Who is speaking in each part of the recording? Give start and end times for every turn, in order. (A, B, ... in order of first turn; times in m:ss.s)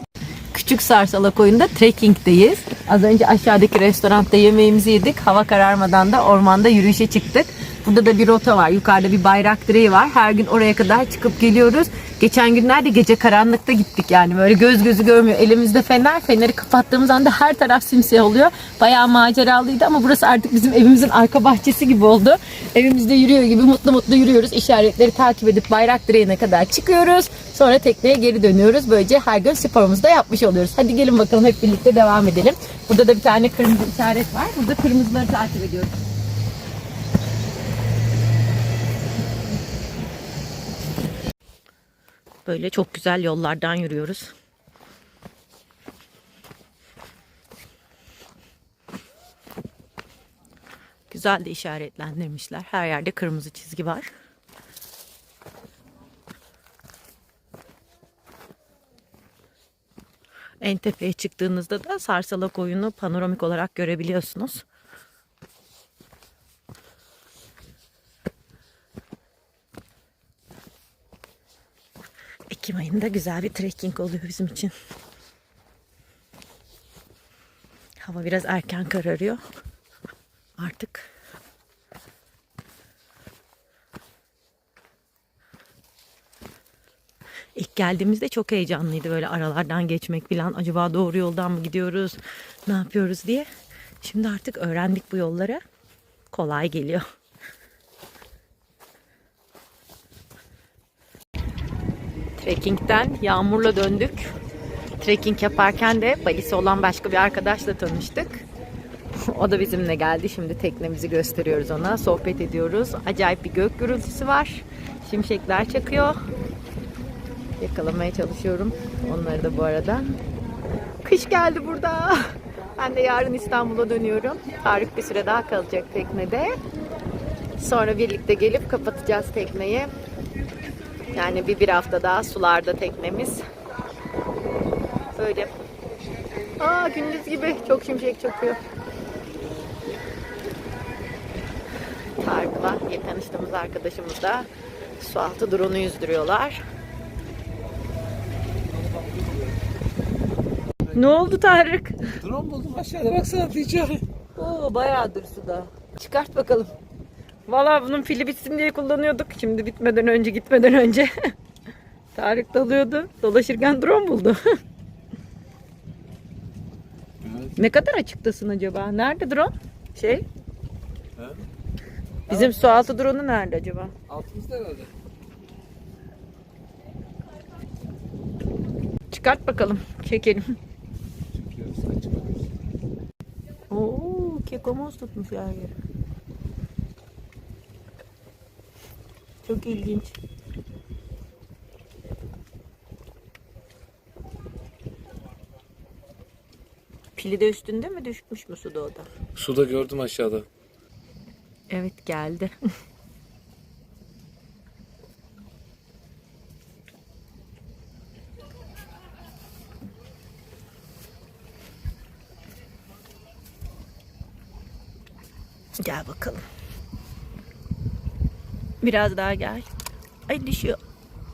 0:00.5-0:35.9 A
0:42.4-0:44.3 A
0:51.1-0:54.1 A
1:00.6-1:04.6 A
1:12.5-1:14.7 A
1:18.0-1:19.4 A
1:20.6-1:21.1 A
1:27.5-1:33.5 A
1:34.0-1:35.6 A
1:36.3-1:37.0 A
1:42.4-1:44.2 A
1:45.0-1:48.4 A
1:49.2-1:56.2 A
1:57.6-2:00.1 A
2:01.0-2:02.2 A
2:02.8-2:06.5 A
2:07.6-2:09.9 A
2:11.1-2:13.4 A
2:15.1-2:15.5 A
2:16.6-2:18.6 A
2:22.2-2:26.6 A
2:28.8-2:29.5 B
2:30.9-2:32.0 A
2:32.2-2:34.0 B
2:32.4-2:33.0 C
2:34.4-2:36.7 A
2:37.5-2:41.1 A
2:42.1-2:44.4 A
2:47.2-2:47.5 C
2:47.6-2:50.2 A
2:52.3-2:53.9 A
2:54.1-2:54.9 B
2:59.1-3:00.4 A
3:01.3-3:02.5 B
3:03.7-3:05.7 A
3:09.4-3:10.1 A
3:17.2-3:19.1 A
3:19.4-3:20.4 C
3:21.7-3:22.5 A
3:35.8-3:36.4 A
3:38.8-3:39.7 A
3:40.3-3:40.8 A